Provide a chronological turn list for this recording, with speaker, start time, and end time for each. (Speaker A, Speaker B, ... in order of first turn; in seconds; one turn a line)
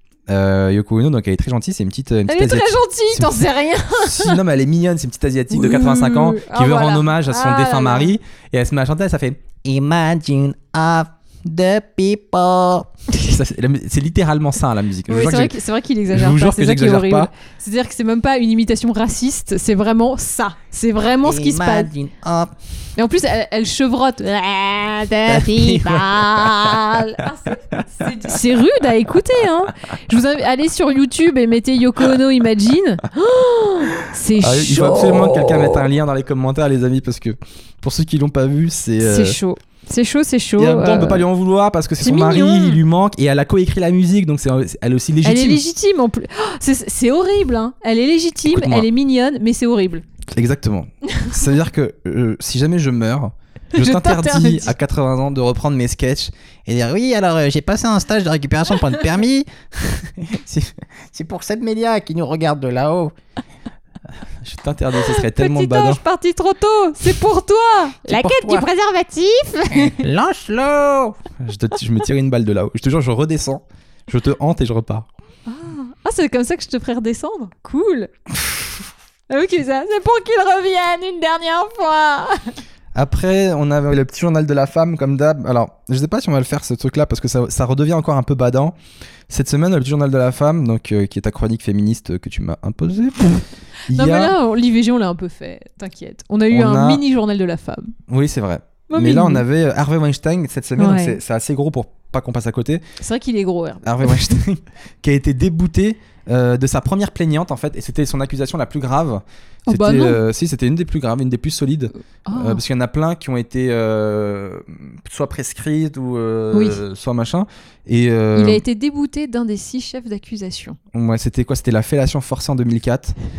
Speaker A: 0.3-3.4
Speaker B: 2.3-4.4
Speaker A: 3.9-9.4
Speaker B: 5.5-8.1
Speaker C: 9.6-12.9
Speaker A: 13.2-15.6
Speaker B: 15.1-21.9
Speaker A: 16.1-17.3
Speaker C: 21.2-22.5
Speaker B: 23.0-35.8
Speaker C: 25.3-26.1
Speaker A: 34.4-39.4
Speaker B: 39.0-41.3
Speaker A: 40.6-45.6
Speaker B: 42.0-42.8
Speaker B: 45.2-50.0
Speaker A: 48.5-48.9
Speaker A: 50.3-56.3
Speaker B: 53.7-54.7
Speaker C: 56.7-59.5
Speaker C: 60.0-60.5
Speaker C: 61.1-63.1
Speaker A: 64.4-66.0
Speaker B: 65.0-70.1
Speaker C: 68.0-68.7
Speaker C: 69.7-71.2
Speaker A: 71.4-75.1
Speaker B: 75.5-78.1
Speaker B: 79.3-82.5
Speaker A: 82.9-88.7
Speaker A: 89.3-94.3
Speaker B: 93.9-97.9
Speaker A: 96.5-97.0
Speaker A: 98.1-102.8
Speaker B: 98.9-99.4
Speaker B: 100.8-101.2
Speaker B: 103.0-104.4
Speaker A: 103.8-118.6
Speaker B: 109.7-110.2
Speaker B: 112.3-112.6
Speaker B: 116.5-116.8
Speaker B: 118.3-120.8
Speaker A: 120.9-123.2